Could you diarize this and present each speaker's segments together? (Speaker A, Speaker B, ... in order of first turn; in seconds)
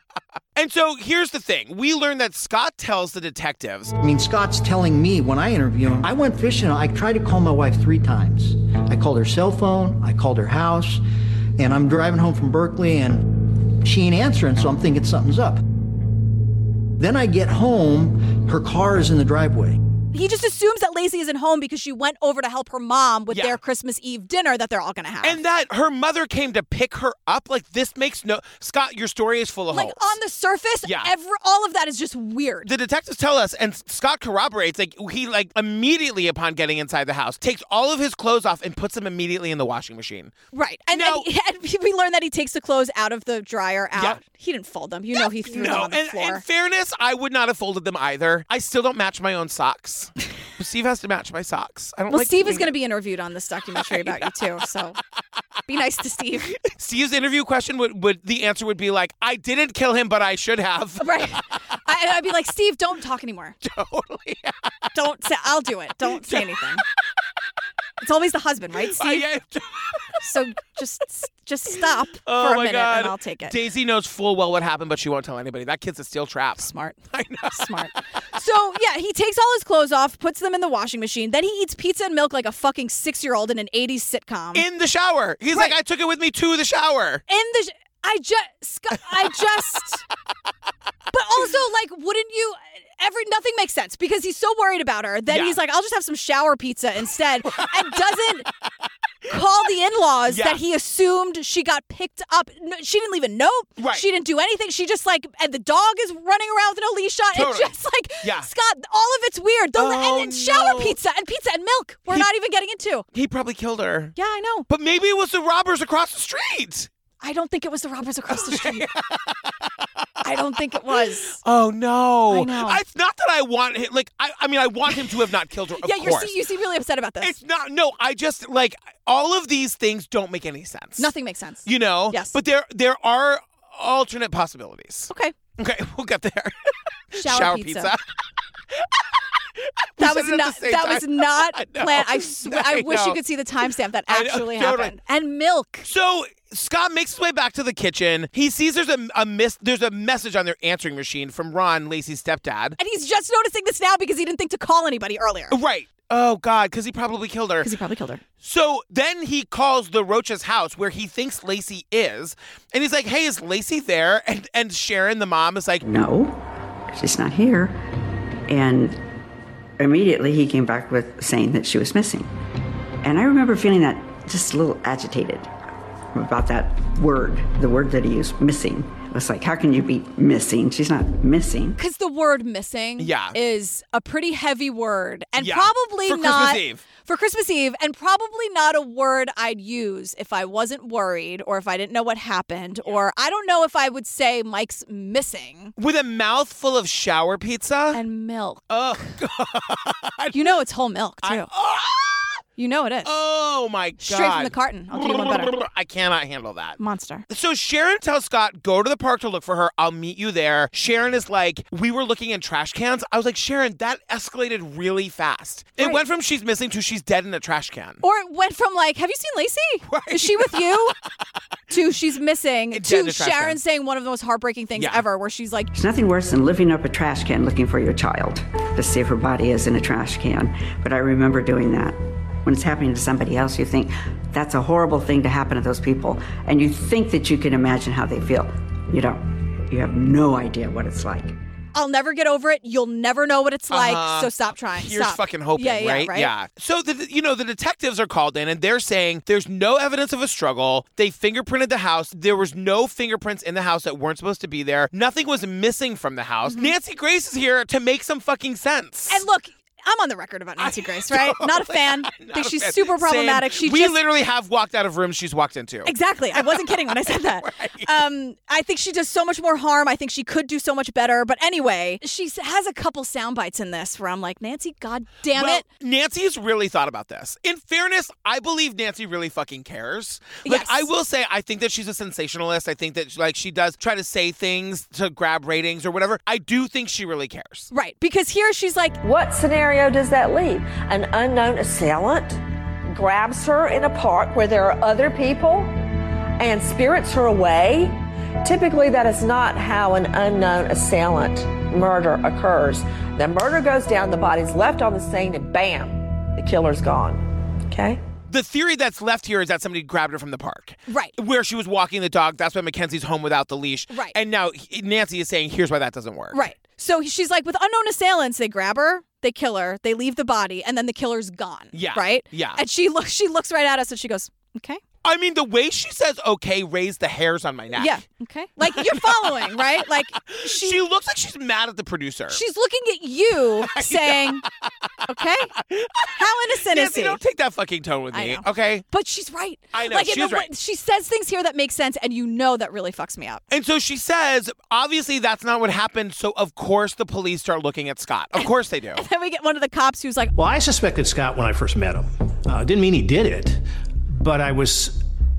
Speaker A: 0.6-3.9, 23.3-23.6, 25.2-30.1, 30.9-31.1, 32.6-40.3, 40.9-41.3, 45.5-52.7, 53.9-54.3, 56.6-61.2, 63.6-64.5, 66.1-66.5, 68.9-70.0, 72.3-77.7, 84.5-87.2, 95.3-95.6, 100.3-100.6, 103.8-104.0, 107.3-108.5, 109.8-111.0, 113.1-114.2, 114.7-116.9, 118.3-119.3, 121.4-126.3, 127.2-131.1, 131.7-136.6, 137.1-138.0, 140.0-143.2, 144.1-144.9, 145.8-152.8, 155.5-157.7, 158.4-165.8, 183.0-183.4, 185.4-186.8, 195.8-198.0, 198.7-200.4, 201.2-202.4, 203.1-206.8, 207.3-218.0, 219.9-220.7, 222.7-223.6, 224.8-225.0, 243.7-259.2, 260.6-267.9, 275.3-287.7, 308.3-316.4, 321.7-322.6, 325.0-328.0, 328.6-329.6, 330.3-332.4, 333.6-334.4, 335.6-336.1, 336.7-338.8, 339.7-340.5, 343.5-349.0
Speaker B: 4.0-11.0, 11.6-15.6, 17.0-19.8
Speaker C: 20.1-25.4, 29.7-32.7, 40.5-46.4, 52.1-55.0, 55.7-56.6, 61.0-63.6, 64.9-66.8, 68.0-69.2, 70.2-73.6, 76.6-84.7, 87.3-90.0, 91.1-98.5, 99.3-113.0, 114.2-114.7, 117.2-118.9, 120.2-121.4, 122.3-122.8, 124.9-125.2, 125.8-127.4, 131.0-132.4, 137.2-137.9, 140.0-145.9, 152.8-155.6, 157.6-158.2, 181.8-195.7, 197.9-198.7, 200.3-201.5, 202.6-203.1, 204.0-205.6, 206.8-207.3, 218.0-220.9, 221.7-225.7, 241.8-246.3, 256.5-256.7, 259.1-264.0, 265.9-275.6, 280.4-280.9, 287.7-289.0, 310.9-311.1, 313.9-314.2, 316.3-324.8, 327.8-330.8, 332.3-334.4, 335.1-335.5, 336.2-337.2, 338.1-343.4, 348.4-350.3
Speaker D: 165.8-166.4, 166.9-167.8, 168.5-169.0, 169.8-172.3, 173.0-175.5, 176.1-181.8, 225.7-241.4
Speaker E: 289.0-292.4, 292.9-295.7, 296.4-297.8, 298.4-307.2, 307.7-308.0
Speaker F: 350.4-353.6, 354.2-355.0